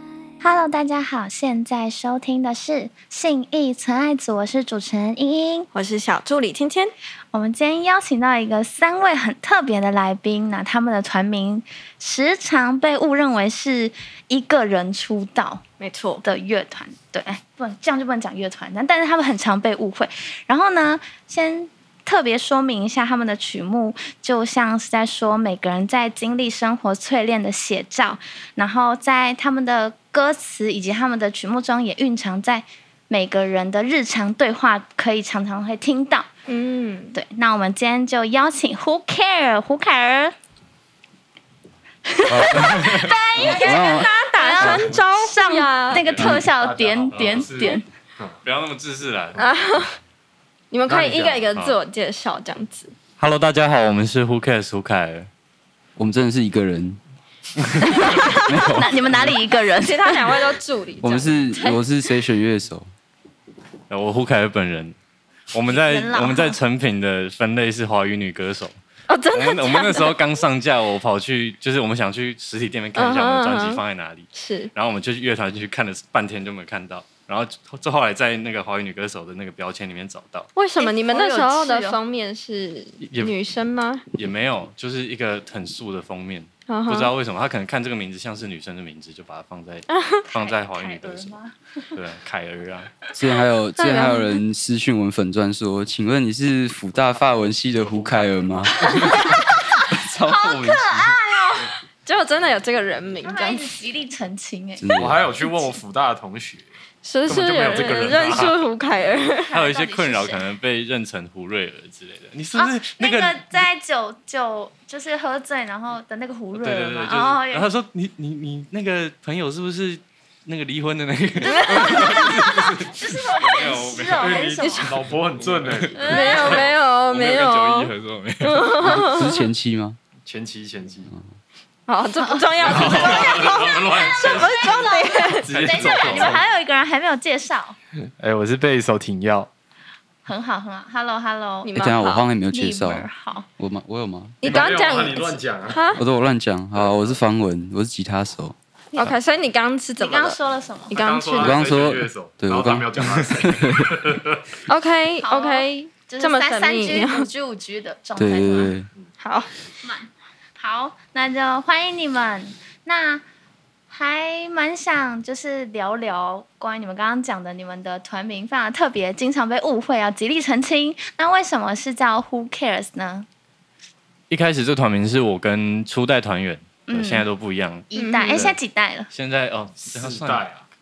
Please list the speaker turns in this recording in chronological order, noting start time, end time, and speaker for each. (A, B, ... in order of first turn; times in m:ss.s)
0:00.4-0:05.7 A
0:05.7-0:06.9 B
0:07.3-0:15.6 A
0:15.8-0:16.2 B
0:16.2-0:36.3 A
0:36.5-0:37.2 B
0:37.1-0:40.4 A
0:42.1-0:47.9 A
0:42.6-0:43.0 C
0:43.4-0:44.1 D
0:43.4-0:46.1 B
0:44.6-0:44.9 D
0:46.1-0:48.4 E
0:47.1-0:47.5 C
0:48.4-0:49.4 C
0:49.4-0:50.0 B
0:50.7-0:52.9 B
0:50.9-0:51.5 E
0:50.9-0:51.8 C
0:53.2-0:55.3 C
0:56.0-0:57.0 D
0:58.0-0:59.0 D
0:58.6-1:00.4 A
0:59.8-1:01.3 B
1:01.0-1:02.9 D
1:01.5-1:01.8 A
1:03.9-1:05.0 C
1:05.5-1:08.7 C
1:05.7-1:06.6 A
1:09.1-1:10.2 B
1:09.3-1:20.5 C
1:13.0-1:13.8 B
1:14.3-1:14.7 B
1:20.6-1:24.0 B
1:20.8-1:22.0 A
1:23.0-1:23.3 C
1:24.1-1:31.4 C
1:26.7-1:27.1 B
1:29.9-1:30.3 B
1:30.3-1:31.9 A
1:31.9-1:33.0 C
1:33.2-1:39.2 D
1:33.8-1:34.4 B
1:37.8-1:38.8 C
1:39.0-1:39.6 A
1:39.1-1:39.4 B
1:39.9-1:41.1 D
1:40.1-1:41.7 A
1:42.0-1:43.7 B
1:43.2-1:45.0 A
1:44.8-1:45.3 D
1:45.0-1:46.7 E
1:47.0-1:49.6 B
1:47.2-1:48.6 E
1:47.6-1:48.6 C
1:49.4-1:50.4 A
1:49.5-1:53.4 C
1:52.5-1:57.7 A
1:56.6-2:04.5 C
2:01.4-2:05.0 A
2:01.4-2:02.5 B
2:04.2-2:06.6 E
2:04.5-2:05.0 B
2:05.4-2:08.8 C
2:05.9-2:06.6 A
2:06.1-2:09.4 B
2:08.8-2:10.0 D
2:10.3-2:11.1 E
2:11.9-2:15.5 B
2:12.2-2:17.8 A
2:12.6-2:16.4 E
2:12.6-2:12.9 C
2:15.5-2:16.4 C
2:18.2-2:19.5 E
2:20.2-2:21.8 A
2:21.6-2:22.3 B
2:21.8-2:24.7 D
2:22.5-2:23.5 A
2:24.4-2:26.0 B
2:24.4-2:25.8 E
2:26.0-2:28.6 D
2:26.8-2:27.2 E
2:28.9-2:30.4 B
2:30.0-2:31.0 A
2:30.9-2:31.6 B
2:30.9-2:34.4 E
2:31.4-2:34.2 D
2:34.7-2:37.3 B
2:35.2-2:38.7 A
2:38.2-2:38.9 D
2:39.2-2:39.5 B
2:39.8-2:43.2 A
2:43.9-2:53.3 A
2:54.3-2:58.6 C
2:56.9-2:57.3 A
2:57.9-2:59.1 A
2:57.9-2:58.5 B
2:59.1-3:00.4 C
2:59.8-3:00.6 E